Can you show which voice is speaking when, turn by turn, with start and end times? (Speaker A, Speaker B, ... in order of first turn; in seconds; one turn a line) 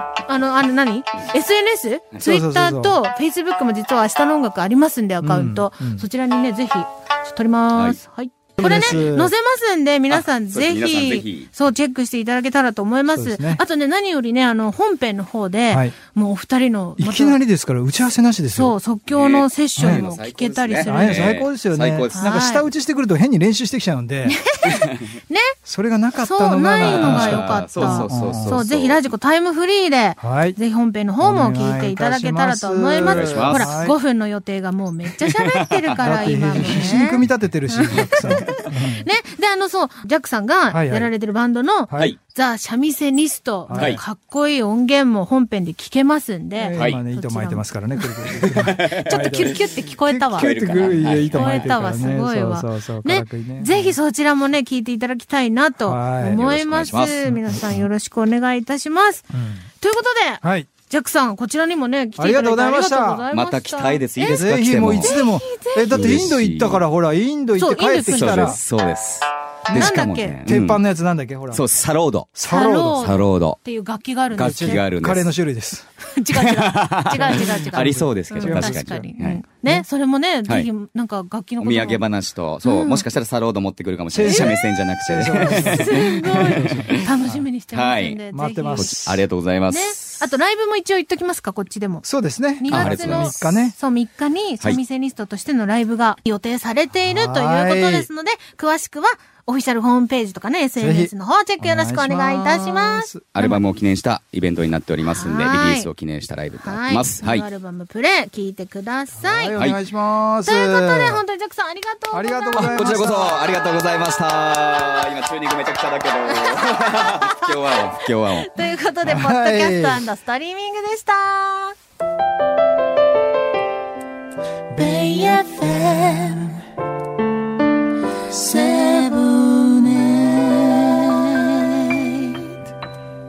Speaker A: 0.3-17.4
Speaker B: 2.2-3.0
Speaker B: 5.2-6.0
Speaker C: 7.7-8.0
Speaker B: 8.6-9.3
Speaker C: 8.7-9.0
Speaker C: 10.1-11.5
Speaker B: 13.1-13.6
Speaker B: 15.7-15.9
Speaker B: 17.0-18.8
Speaker A: 18.5-21.4
Speaker C: 19.1-22.2
Speaker B: 19.8-20.0
Speaker B: 20.8-24.4
Speaker A: 22.1-22.7
Speaker A: 24.2-25.5
Speaker C: 24.6-24.9
Speaker B: 25.6-28.6
Speaker A: 26.1-59.2
Speaker C: 26.8-29.1
Speaker B: 30.2-30.6
Speaker B: 31.2-34.0
Speaker C: 33.0-33.8
Speaker C: 35.2-36.9
Speaker B: 36.0-39.1
Speaker C: 38.2-38.5
Speaker B: 40.7-41.1
Speaker B: 41.9-42.1
Speaker B: 43.7-44.0
Speaker C: 43.7-44.0
Speaker B: 46.5-53.9
Speaker C: 48.4-49.5
Speaker C: 50.4-51.9
Speaker B: 55.8-57.9
Speaker C: 56.5-57.2
Speaker B: 59.3-59.7
Speaker A: 59.8-64.4
Speaker B: 60.4-60.7
Speaker B: 62.2-63.2
Speaker C: 63.3-65.2
Speaker B: 64.2-68.6
Speaker A: 65.0-66.2
Speaker C: 65.9-66.8
Speaker A: 67.5-68.6
Speaker C: 68.0-70.8
Speaker B: 69.7-71.6
Speaker A: 69.7-70.4
Speaker C: 71.5-72.3
Speaker B: 72.3-73.0
Speaker A: 72.4-74.8
Speaker C: 72.9-73.6
Speaker C: 74.3-75.3
Speaker B: 74.3-75.9
Speaker A: 76.2-82.1
Speaker C: 76.3-79.4
Speaker B: 77.3-79.1
Speaker C: 81.6-87.0
Speaker A: 82.6-83.0
Speaker B: 84.1-87.4
Speaker A: 84.2-84.5
Speaker A: 85.5-89.1
Speaker C: 87.7-88.2
Speaker B: 88.3-89.2
Speaker C: 88.7-90.2
Speaker A: 89.7-103.6
Speaker B: 92.0-93.8
Speaker C: 92.7-93.3
Speaker B: 97.0-98.1
Speaker B: 100.8-103.3
Speaker C: 103.3-107.5
Speaker A: 105.0-105.9
Speaker A: 106.5-109.6
Speaker B: 109.1-111.2
Speaker A: 110.5-113.1
Speaker B: 112.1-113.4
Speaker C: 112.5-118.5
Speaker A: 116.3-117.8
Speaker A: 118.3-121.7
Speaker B: 119.0-120.0
Speaker A: 124.7-126.5
Speaker A: 128.3-132.4